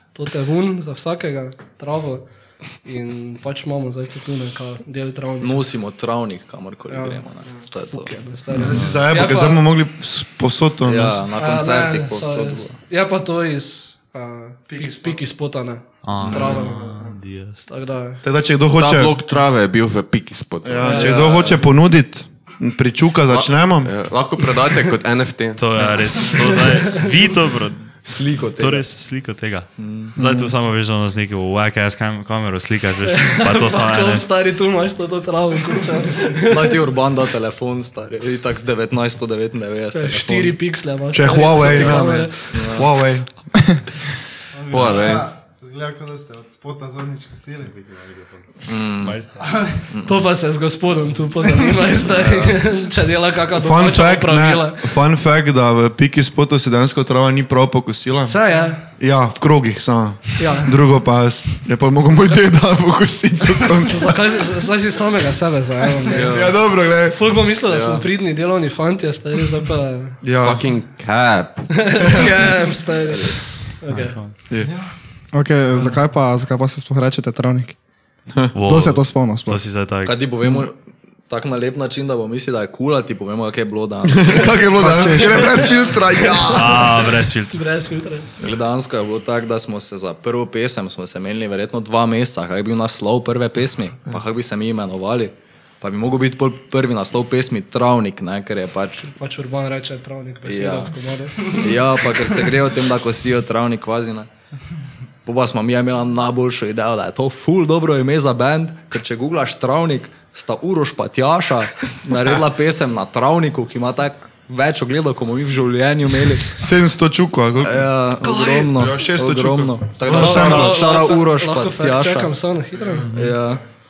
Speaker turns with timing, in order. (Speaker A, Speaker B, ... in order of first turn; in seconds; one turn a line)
Speaker A: 0.1-5.6
Speaker B: 5.4-8.2
Speaker A: 6.9-9.7
Speaker C: 8.5-9.0
Speaker D: 8.5-11.3
Speaker B: 10.8-12.8
Speaker A: 11.4-18.2
Speaker D: 14.7-15.2
Speaker C: 16.0-17.6
Speaker D: 16.1-17.1
Speaker D: 18.2-19.2
Speaker E: 18.7-21.3
Speaker D: 20.6-23.9
Speaker A: 20.8-21.4
Speaker B: 20.9-21.6
Speaker E: 23.3-25.9
Speaker C: 25.6-28.0
Speaker A: 26.5-27.1
Speaker B: 28.0-28.9
Speaker C: 28.5-34.3
Speaker B: 29.8-30.2
Speaker A: 33.0-36.7
Speaker B: 36.4-40.7
Speaker A: 39.9-42.6
Speaker D: 41.1-43.4
Speaker B: 41.6-42.9
Speaker F: 44.5-47.9
Speaker E: 44.7-45.3
Speaker B: 48.7-49.2
Speaker C: 49.0-49.5
Speaker F: 49.4-49.8
Speaker B: 49.9-50.2
Speaker A: 50.0-54.9
Speaker B: 52.1-52.6
Speaker D: 53.5-58.4
Speaker A: 58.2-58.9
Speaker D: 59.0-64.3
Speaker A: 60.4-60.8
Speaker A: 63.9-66.5
Speaker D: 66.2-67.2
Speaker B: 66.2-66.5
Speaker A: 67.1-70.2
Speaker D: 70.2-70.7
Speaker E: 70.4-71.9
Speaker A: 71.7-74.2
Speaker C: 73.9-74.3
Speaker F: 74.6-74.9
Speaker G: 75.3-77.8
Speaker C: 78.5-80.2
Speaker G: 78.6-79.6
Speaker B: 80.0-80.8
Speaker B: 81.3-85.7
Speaker D: 84.1-87.0
Speaker G: 84.8-85.6
Speaker A: 85.4-85.7
Speaker C: 86.5-87.6
Speaker A: 87.5-88.3
Speaker B: 88.4-99.1
Speaker A: 99.0-101.7
Speaker B: 100.5-100.9
Speaker B: 101.5-104.3
Speaker B: 105.2-116.6
Speaker D: 116.6-118.0
Speaker B: 117.6-122.3
Speaker A: 118.2-118.8
Speaker D: 118.7-120.8
Speaker A: 120.0-123.1
Speaker C: 123.1-123.4
Speaker B: 123.1-123.6